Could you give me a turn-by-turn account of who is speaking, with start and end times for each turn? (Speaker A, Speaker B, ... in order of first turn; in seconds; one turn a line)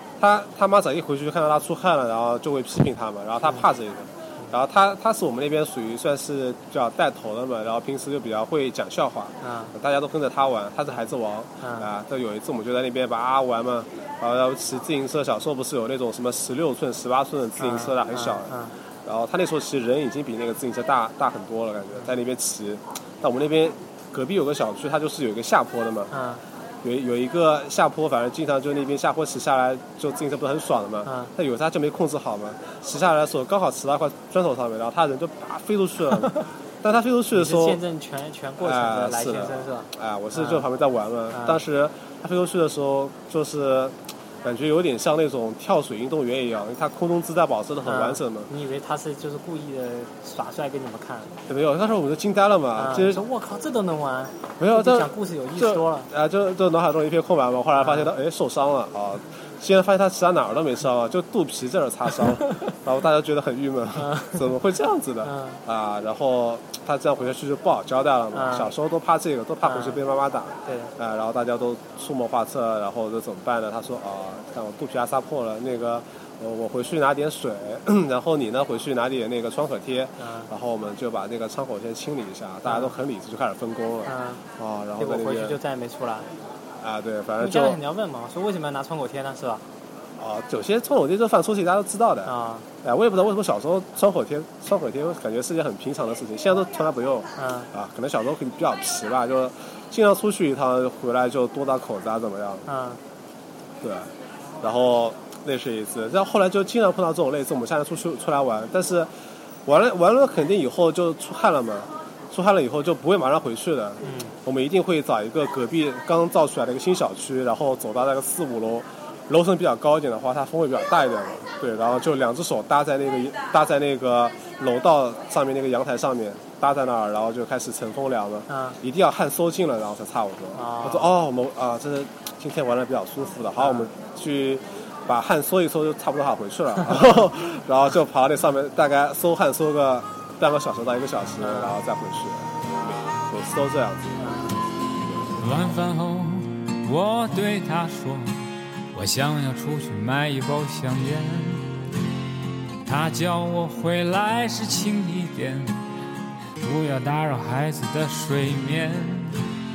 Speaker A: 0.2-26.1
Speaker B: 9.4-9.8
Speaker B: 11.6-11.9
Speaker B: 17.6-18.7
Speaker B: 26.1-26.4
Speaker A: 26.8-37.8
Speaker B: 31.1-31.3
Speaker B: 37.3-40.7
Speaker A: 38.6-48.5
Speaker B: 41.3-41.6
Speaker B: 47.8-51.3
Speaker A: 51.5-53.2
Speaker B: 52.8-56.1
Speaker A: 54.6-85.6
Speaker B: 57.8-58.1
Speaker B: 64.0-64.6
Speaker B: 65.2-65.6
Speaker B: 68.3-68.7
Speaker B: 69.6-70.0
Speaker B: 70.7-70.9
Speaker B: 80.2-80.5
Speaker B: 82.7-83.0
Speaker B: 84.0-84.4
Speaker B: 85.0-86.3
Speaker A: 86.8-87.8
Speaker B: 87.4-89.6
Speaker A: 90.2-92.3
Speaker B: 92.3-92.7
Speaker A: 92.8-102.7
Speaker B: 97.4-97.7
Speaker B: 102.7-103.0
Speaker A: 103.8-104.1
Speaker A: 104.6-109.1
Speaker A: 109.7-145.4
Speaker B: 114.0-114.4
Speaker B: 128.5-128.8
Speaker B: 130.5-131.1
Speaker B: 133.6-133.9
Speaker B: 141.4-141.8
Speaker B: 144.2-144.6
Speaker C: 145.4-151.7
Speaker C: 152.8-155.8
Speaker C: 156.6-159.4